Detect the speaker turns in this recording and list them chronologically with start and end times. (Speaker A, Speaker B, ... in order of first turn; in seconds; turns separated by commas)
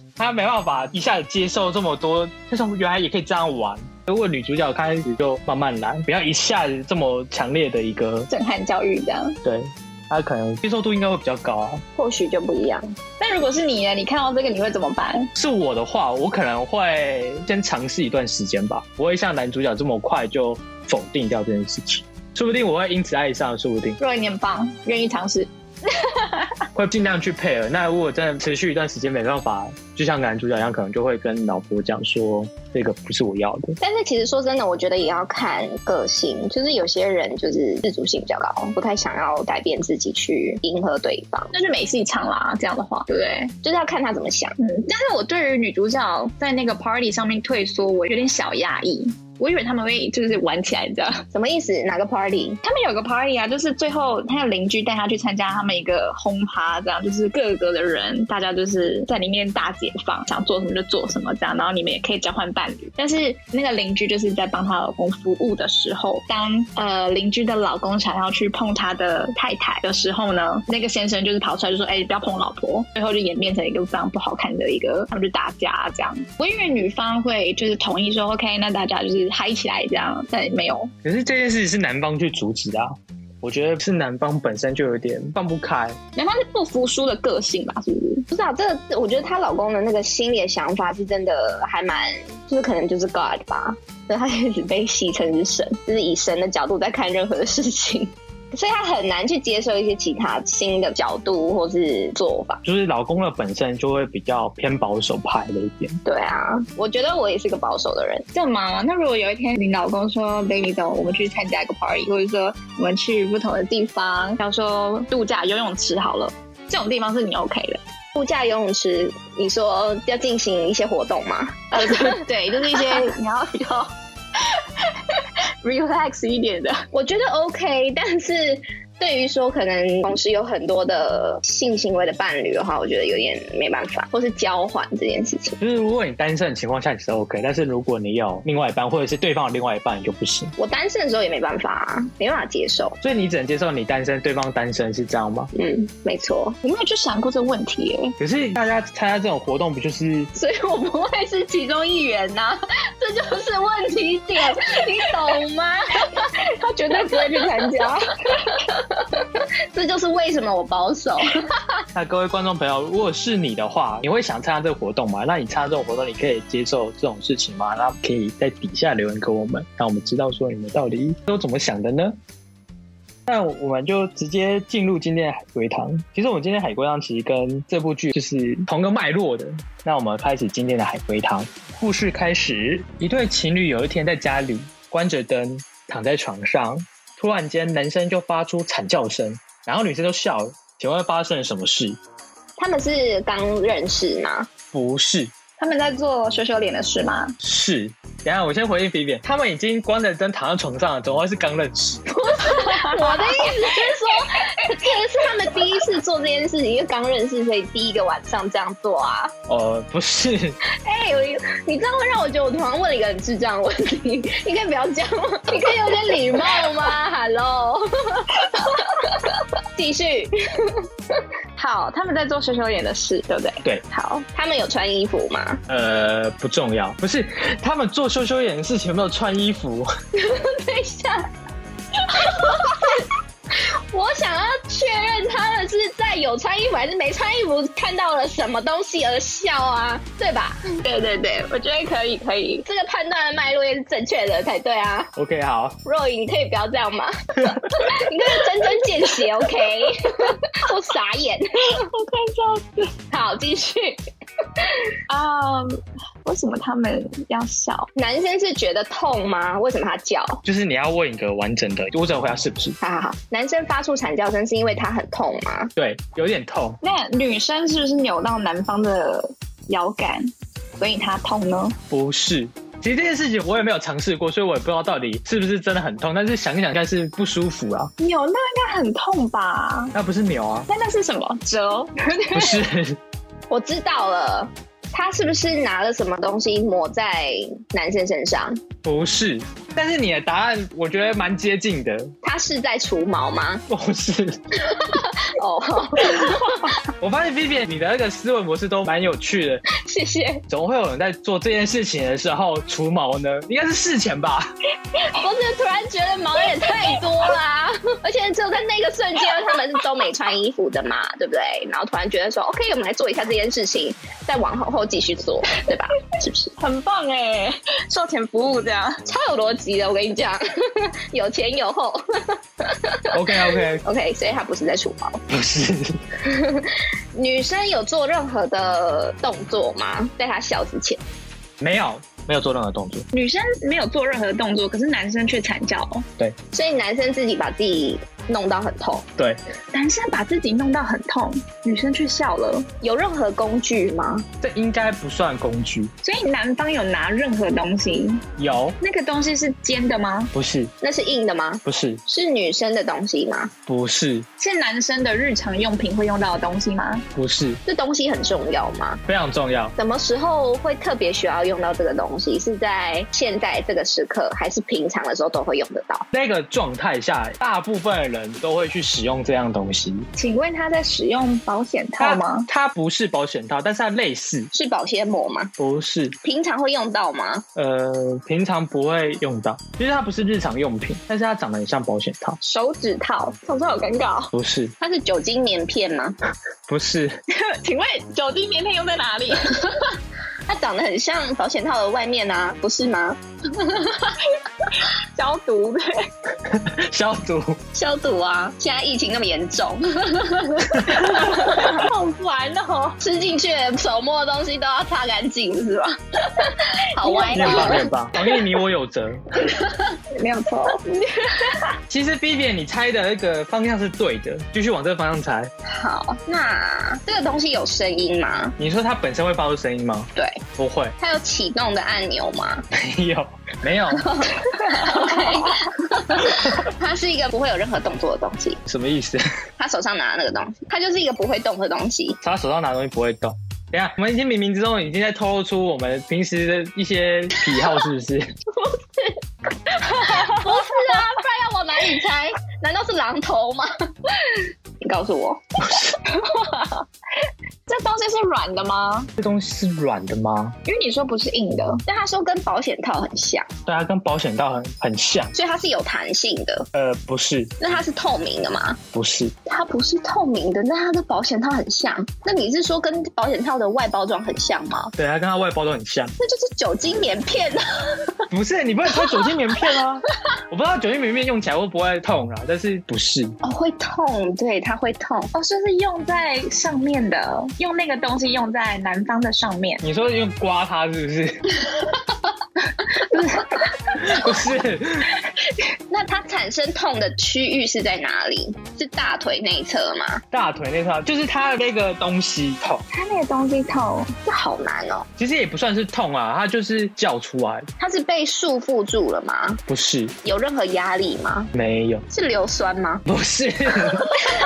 Speaker A: 0.2-8.3, Speaker B: 8.3-9.4, Speaker A: 9.4-11.8, Speaker C: 11.9-12.9, Speaker B: 13.2-15.3, Speaker A: 15.3-24.0, Speaker B: 24.0-26.5, Speaker A: 26.7-33.8, Speaker C: 33.8-41.5, Speaker B: 41.5-43.5, Speaker C: 43.6-44.5, Speaker B: 44.6-51.2, Speaker C: 51.3-52.6, Speaker B: 52.6-80.9, Speaker A: 81.0-86.0, Speaker B: 86.2-88.2, Speaker C: 88.3-102.6, Speaker A: 102.6-106.0, Speaker C: 106.0-108.2, Speaker B: 108.3-117.8, Speaker C: 118.1-122.2, Speaker B: 121.7-126.8, Speaker C: 126.9-135.6, Speaker A: 135.6-140.5, Speaker C: 140.6-143.0, Speaker A: 143.0-145.5, Speaker C: 145.5-146.6, Speaker B: 146.6-148.2, Speaker A: 148.2-150.3, Speaker C: 150.3-156.3, Speaker B: 156.4-158.0, Speaker C: 156.9-157.9, Speaker C: 158.4-161.4, Speaker A: 161.9-172.2, Speaker A: 173.2-192.0, Speaker C: 192.6-194.5, Speaker A: 194.7-195.3, Speaker B: 195.6-197.3, Speaker A: 197.4-202.3, Speaker C: 202.3-209.3, Speaker B: 202.4-203.7, Speaker A: 209.5-210.6, Speaker C: 210.8-220.8, Speaker B: 221.6-224.2, Speaker C: 224.3-225.6, Speaker A: 225.7-229.9, Speaker C: 230.1-231.3, Speaker C: 232.1-240.8, Speaker B: 240.8-242.6, Speaker C: 242.6-245.1, Speaker A: 245.2-245.8, Speaker C: 245.8-251.8, Speaker B: 251.7-252.9, Speaker C: 253.1-254.0, Speaker B: 255.1-257.9, Speaker C: 257.9-260.4, Speaker A: 260.4-262.8, Speaker C: 262.8-265.7, Speaker A: 265.8-266.8, Speaker B: 266.8-271.8, Speaker A: 271.9-277.9, Speaker B: 278.0-279.9, Speaker A: 279.9-280.7, Speaker B: 280.7-282.6, Speaker A: 282.3-283.0, Speaker C: 283.5-288.6, Speaker A: 288.8-292.1, Speaker C: 292.2-293.6, Speaker A: 293.7-294.4, Speaker C: 294.7-296.7, Speaker A: 297.0-299.6, Speaker C: 299.8-300.4, Speaker A: 300.5-304.5, Speaker C: 305.1-316.5, Speaker B: 316.6-319.0, Speaker C: 319.1-325.2, Speaker A: 323.1-323.8, Speaker A: 325.3-326.0, Speaker C: 326.3-331.0, Speaker A: 331.6-333.1, Speaker B: 333.1-336.1, Speaker C: 336.5-339.1, Speaker B: 339.7-342.7, Speaker C: 342.8-344.2, Speaker A: 344.4-345.9, Speaker B: 346.0-348.2, Speaker A: 348.4-348.8, Speaker B: 348.8-350.3, Speaker A: 350.3-350.7, Speaker C: 350.8-353.5, Speaker A: 351.6-352.0, Speaker A: 353.7-354.3, Speaker B: 354.4-357.0, Speaker A: 357.1-357.6, Speaker C: 357.6-359.0, Speaker A: 359.1-359.7, Speaker C: 359.8-366.1, Speaker A: 366.1-370.1, Speaker B: 370.1-372.5, Speaker A: 372.0-374.5, Speaker C: 374.5-375.5, Speaker A: 375.6-376.1, Speaker C: 376.2-377.4, Speaker A: 377.5-382.4, Speaker B: 382.4-384.3, Speaker A: 384.3-384.7, Speaker C: 384.8-386.1, Speaker A: 386.7-387.2, Speaker B: 387.3-389.6, Speaker C: 390.5-394.1, Speaker B: 395.1-396.1, Speaker A: 396.4-397.6, Speaker C: 397.7-401.8, Speaker B: 401.0-403.0, Speaker C: 403.0-408.3, Speaker B: 407.0-407.8, Speaker A: 407.3-409.2, Speaker B: 410.1-411.7, Speaker A: 411.9-415.5, Speaker C: 415.6-418.5, Speaker A: 418.6-420.9, Speaker C: 420.1-420.4, Speaker C: 421.0-422.6, Speaker A: 422.7-424.2, Speaker C: 424.1-428.6, Speaker B: 424.7-425.2, Speaker A: 428.6-429.2, Speaker C: 429.6-432.2, Speaker A: 432.2-438.3, Speaker C: 438.6-439.2, Speaker C: 439.7-443.7, Speaker B: 440.0-440.5, Speaker C: 444.8-445.8, Speaker A: 445.6-445.9, Speaker B: 446.1-446.8, Speaker B: 447.7-449.1, Speaker A: 449.2-450.6, Speaker B: 450.6-451.8, Speaker C: 451.9-453.5, Speaker A: 453.6-455.3, Speaker C: 455.3-456.7, Speaker A: 456.7-457.5, Speaker C: 457.6-458.8, Speaker A: 458.9-459.3, Speaker C: 459.4-464.9, Speaker A: 464.9-466.1, Speaker C: 466.2-467.6, Speaker A: 468.3-473.3, Speaker C: 473.4-475.3, Speaker B: 475.3-479.8, Speaker A: 479.8-481.5, Speaker B: 482.9-483.5, Speaker A: 483.9-485.1, Speaker C: 485.9-490.2, Speaker A: 490.3-492.8, Speaker B: 492.9-494.1, Speaker C: 494.2-495.1, Speaker A: 495.2-497.7, Speaker C: 497.8-499.6, Speaker A: 499.7-500.1, Speaker C: 500.2-501.5, Speaker A: 501.5-502.0, Speaker C: 502.1-503.0, Speaker A: 503.1-504.2